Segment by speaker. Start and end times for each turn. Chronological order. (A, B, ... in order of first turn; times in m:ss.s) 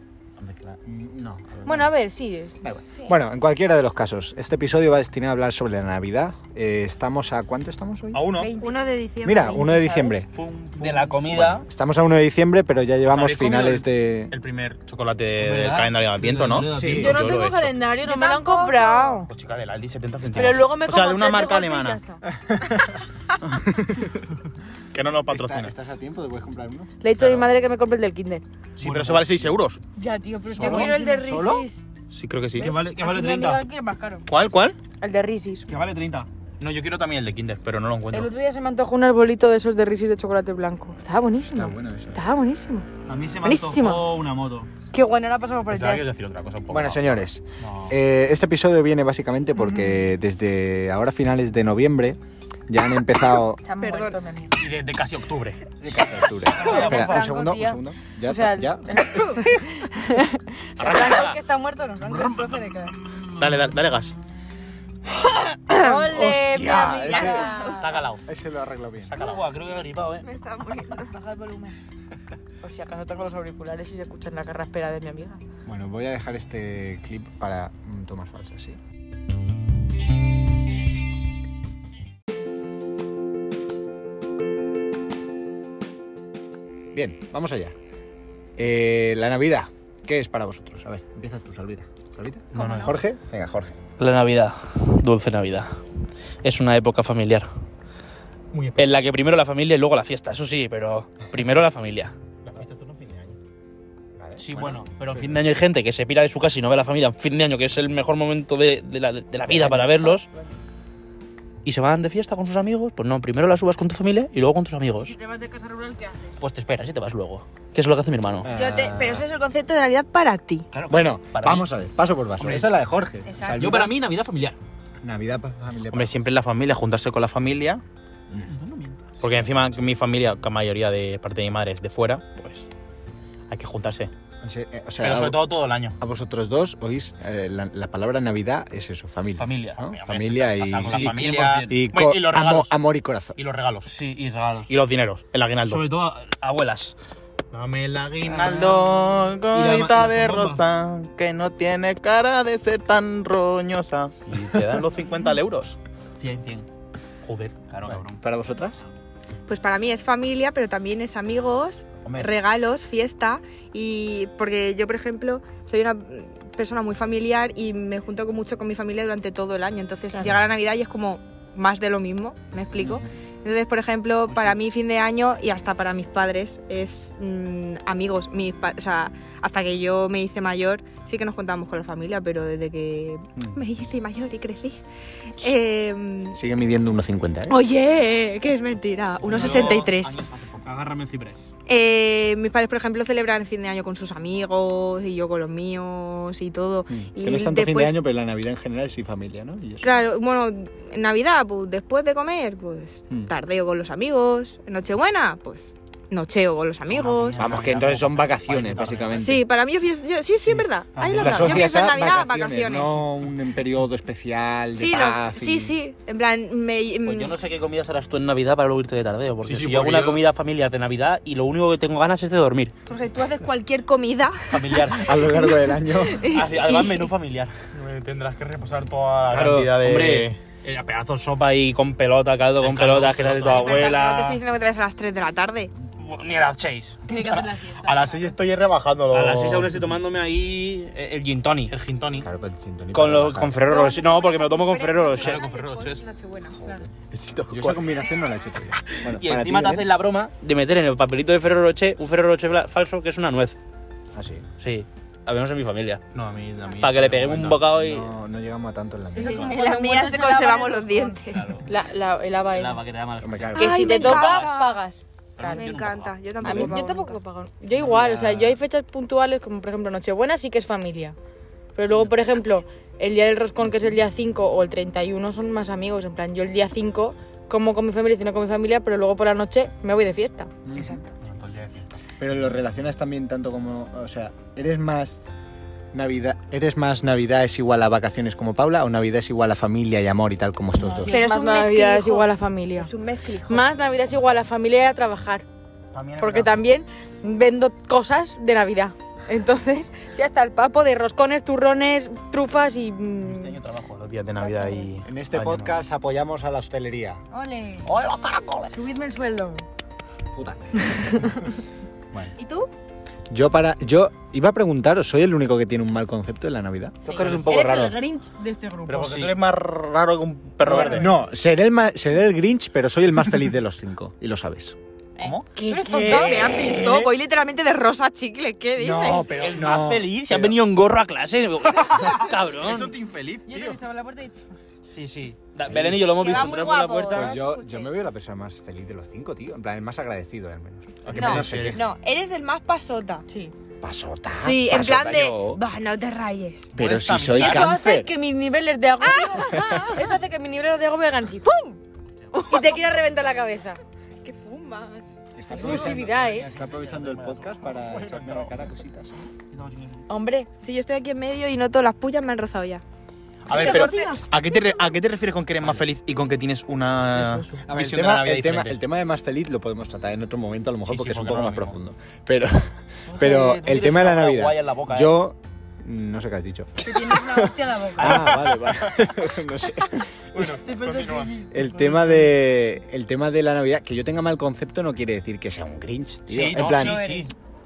0:00.4-0:01.9 A
0:01.6-0:02.8 B
0:02.6-0:08.3 A
0:08.1-0:08.5 C
0:08.4-0:08.8 B
0:08.4-0:10.1 D
0:09.2-0:10.3 A
0:10.3-0:11.4 C
0:10.8-0:11.6 E
0:11.3-0:14.3 A
0:13.1-0:17.7 C
0:15.4-0:17.3 E
0:16.7-0:17.2 A
0:16.9-0:19.3 B
0:18.0-0:19.2 D
0:19.3-0:22.0 C
0:20.3-0:22.2 B
0:22.4-0:23.0 A
0:23.4-0:24.2 C
0:24.9-0:25.7 C
0:25.3-0:26.9 A
0:27.0-0:28.4 B
0:27.2-0:27.4 C
0:28.8-0:29.2 E
0:28.8-0:29.8 C
0:30.0-0:31.7 B
0:30.5-0:31.7 A
0:30.5-0:31.8 D
0:32.1-0:32.8 C
0:32.6-0:33.6 E
0:32.6-0:34.2 B
0:34.3-0:34.8 C
0:35.0-0:35.7 B
0:35.7-0:36.3 E
0:36.6-0:38.3 C
0:38.1-0:42.9 B
0:41.5-0:42.2 A
0:43.0-0:44.7 E
0:43.4-0:44.1 B
0:44.9-0:46.0 B
0:45.7-0:47.9 C
0:46.7-0:53.6 A
0:49.6-0:50.0 B
0:53.6-0:54.6 B
0:53.8-0:54.2 D
0:54.6-0:55.6 C
0:55.8-0:59.2 A
0:56.5-1:02.9 B
0:56.5-0:57.1 E
1:00.8-1:01.4 C
1:02.0-1:02.5 E
1:03.2-1:03.7 E
1:03.4-1:04.2 C
1:05.4-1:06.2 D
1:05.7-1:07.9 B
1:06.1-1:07.6 A
1:06.9-1:08.0 D
1:07.6-1:08.2 C
1:08.2-1:09.1 A
1:09.1-1:09.5 C
1:09.1-1:10.3 E
1:10.2-1:11.1 D
1:10.9-1:11.8 B
1:12.6-1:15.4 B
1:15.6-1:18.8 A
1:26.9-1:27.7 A
1:28.6-1:33.7 A
1:32.5-1:33.0 C
1:32.6-1:32.9 B
1:34.0-1:35.8 E
1:36.4-1:37.5 E
1:38.5-1:38.9 C
1:38.8-1:42.1 E
1:42.4-1:43.4 C
1:44.1-1:44.5 A
1:44.4-1:50.3 E
1:45.1-1:45.4 A
1:49.5-1:50.4 A
1:51.6-1:55.1 E
1:55.0-1:56.3 B
1:56.4-1:58.5 E
1:58.4-1:59.3 A
1:58.5-2:00.6 D
2:00.7-2:01.8 E
2:00.9-2:03.9 A
2:02.4-2:02.7 C
2:03.3-2:03.6 D
2:03.5-2:04.6 E
2:05.0-2:06.1 A
2:05.9-2:07.8 C
2:08.5-2:09.0 E
2:09.2-2:12.7 C
2:09.2-2:09.6 A
2:13.5-2:14.1 C
2:14.4-2:15.4 A
2:15.0-2:16.0 C
2:16.0-2:23.4 A
2:19.4-2:20.0 E
2:20.0-2:22.7 C
2:20.8-2:21.8 E
2:23.4-2:23.9 C
2:23.8-2:24.7 E
2:24.7-2:25.8 C
2:25.6-2:27.0 E
2:27.5-2:35.8 C
2:28.2-2:30.6 E
2:36.2-2:36.6 E
2:37.2-2:38.0 C
2:37.7-2:38.2 E
2:38.1-2:38.8 A
2:39.4-3:04.8 D
2:42.0-2:42.3 C
2:52.8-2:53.0 A
3:05.4-3:06.4 D
3:06.3-3:07.6 A
3:07.5-3:10.2 D
3:09.2-3:10.7 C
3:09.3-3:09.9 E
3:10.6-3:11.5 E
3:11.7-3:18.0 D
3:16.9-3:20.0 A
3:19.8-3:27.4 D
3:26.9-3:29.3 C
3:27.4-3:29.4 A
3:29.2-3:33.0 D
3:30.9-3:31.7 E
3:31.2-3:35.8 A
3:34.7-3:37.3 D
3:37.0-3:42.7 E
3:39.4-3:40.2 C
3:42.9-3:47.1 D
3:44.5-3:45.2 E
3:45.0-3:46.2 A
3:46.2-3:47.5 E
3:47.7-3:50.4 C
3:49.3-3:54.4 E
3:52.6-3:54.0 C
3:53.5-3:55.7 D
3:56.0-3:57.0 E
3:57.1-3:58.3 B
3:57.1-3:59.8 C
3:59.1-4:01.7 E
4:01.7-4:02.3 C
4:02.2-4:03.6 A
4:02.9-4:05.4 E
4:03.7-4:06.8 D
4:05.1-4:06.0 C
4:06.6-4:06.9 A
4:07.1-4:07.8 C
4:07.5-4:09.9 A
4:09.0-4:13.6 E
4:14.1-4:14.4 A
4:14.6-4:16.0 E
4:16.1-4:17.7 C
4:16.8-4:18.1 E
4:17.7-4:19.8 A
4:19.1-4:22.8 B
4:19.2-4:21.6 D
4:21.3-4:21.6 E
4:22.5-4:24.6 E
4:23.2-4:24.2 A
4:23.5-4:24.8 D
4:23.6-4:25.6 B
4:25.4-4:26.5 E
4:25.4-4:27.2 D
4:26.4-4:27.0 A
4:26.4-4:31.2 B
4:27.8-4:28.6 E
4:31.8-4:40.5 B
4:40.6-4:41.0 A
4:40.7-4:41.0 D
4:41.2-4:41.9 C
4:42.2-4:45.3 A
4:45.9-4:51.2 A
4:50.8-4:52.9 B
4:51.0-4:53.7 D
4:53.5-4:55.4 B
4:55.9-4:56.6 C
4:56.2-5:03.6 B
5:03.2-5:05.8 C
5:04.4-5:04.9 B
5:05.0-5:07.2 A
5:07.3-5:07.9 B
5:07.8-5:08.7 C
5:08.7-5:09.6 B
5:10.3-5:11.4 A
5:10.9-5:11.4 B
5:12.4-5:12.7 D
5:13.3-5:17.0 A
5:17.0-5:18.0 E
5:17.1-5:17.7 C
5:17.4-5:19.2 B
5:18.9-5:21.1 C
5:19.0-5:19.3 E
5:20.7-5:21.0 B
5:20.7-5:24.8 A
5:25.2-5:26.5 B
5:25.2-5:27.0 C
5:25.6-5:29.4 D
5:26.0-5:27.1 A
5:28.8-5:30.6 A
5:29.3-5:32.9 E
5:32.6-5:33.8 C
5:33.4-5:34.5 B
5:34.9-5:37.4 E
5:35.7-5:41.9 A
5:36.1-5:37.9 D
5:41.0-5:41.8 C
5:41.1-5:43.2 D
5:43.3-5:43.5 B
5:43.8-5:45.6 A
5:44.4-5:46.7 D
5:46.7-5:48.1 A
5:46.8-5:47.7 C
5:47.3-5:51.8 B
5:49.0-5:50.1 D
5:49.5-5:49.8 A
5:52.3-5:52.8 D
5:52.4-5:53.8 B
5:54.2-5:55.2 D
5:55.3-5:59.1 A
5:55.5-5:56.5 B
5:55.6-5:57.4 E
5:56.9-5:58.6 C
5:59.5-6:00.1 E
6:00.1-6:00.5 B
6:00.6-6:02.8 D
6:03.4-6:08.8 C
6:03.5-6:04.3 B
6:03.5-6:04.1 D
6:07.2-6:07.6 E
6:07.7-6:20.4 A
6:10.8-6:11.7 C
6:13.1-6:15.1 E
6:16.8-6:18.3 B
6:18.0-6:19.1 C
6:20.3-6:21.4 C
6:20.5-6:22.2 B
6:21.5-6:27.0 A
6:26.3-6:27.3 E
6:26.7-6:27.3 B